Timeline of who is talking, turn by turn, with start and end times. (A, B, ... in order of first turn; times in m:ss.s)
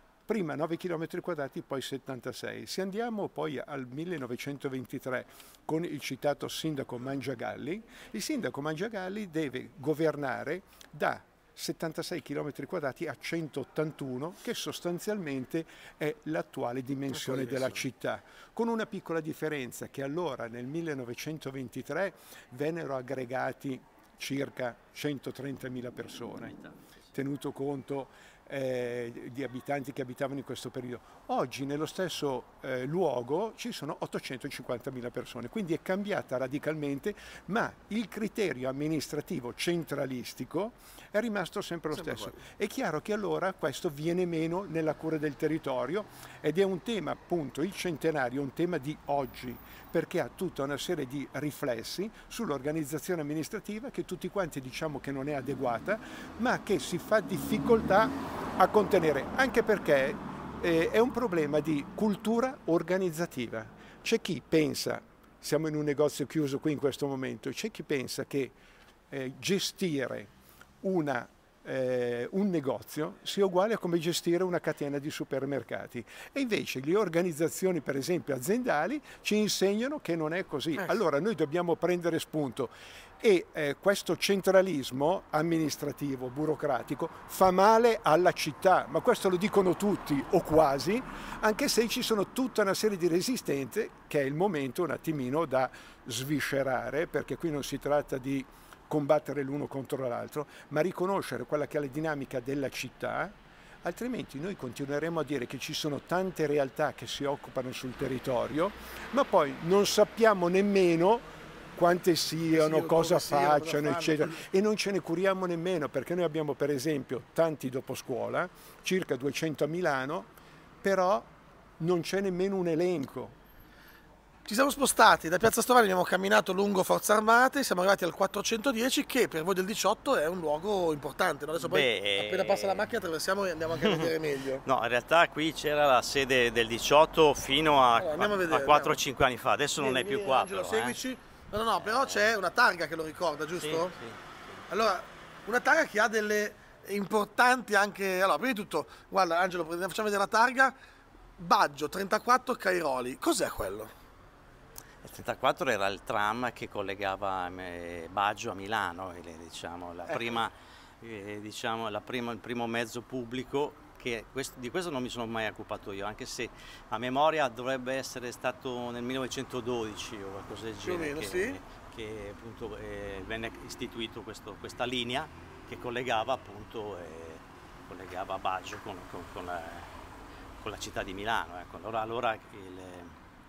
0:00.3-0:26.6 A
0:17.1-0:17.8 B
0:27.1-1:08.6 A
0:41.9-0:42.4 B
1:09.1-2:03.4 A
1:52.5-1:54.4 B
2:04.4-2:14.6 B
2:11.6-2:12.9 C
2:13.8-2:14.1 C
2:14.6-2:21.0 C
2:18.0-2:19.0 B
2:19.8-2:23.9 B
2:21.8-2:22.3 C
2:23.6-2:24.6 C
2:24.7-2:30.8 B
2:31.4-2:33.9 B
2:35.0-2:59.9 C
2:40.1-2:40.4 B
2:50.8-2:51.6 B
3:00.6-3:03.2 C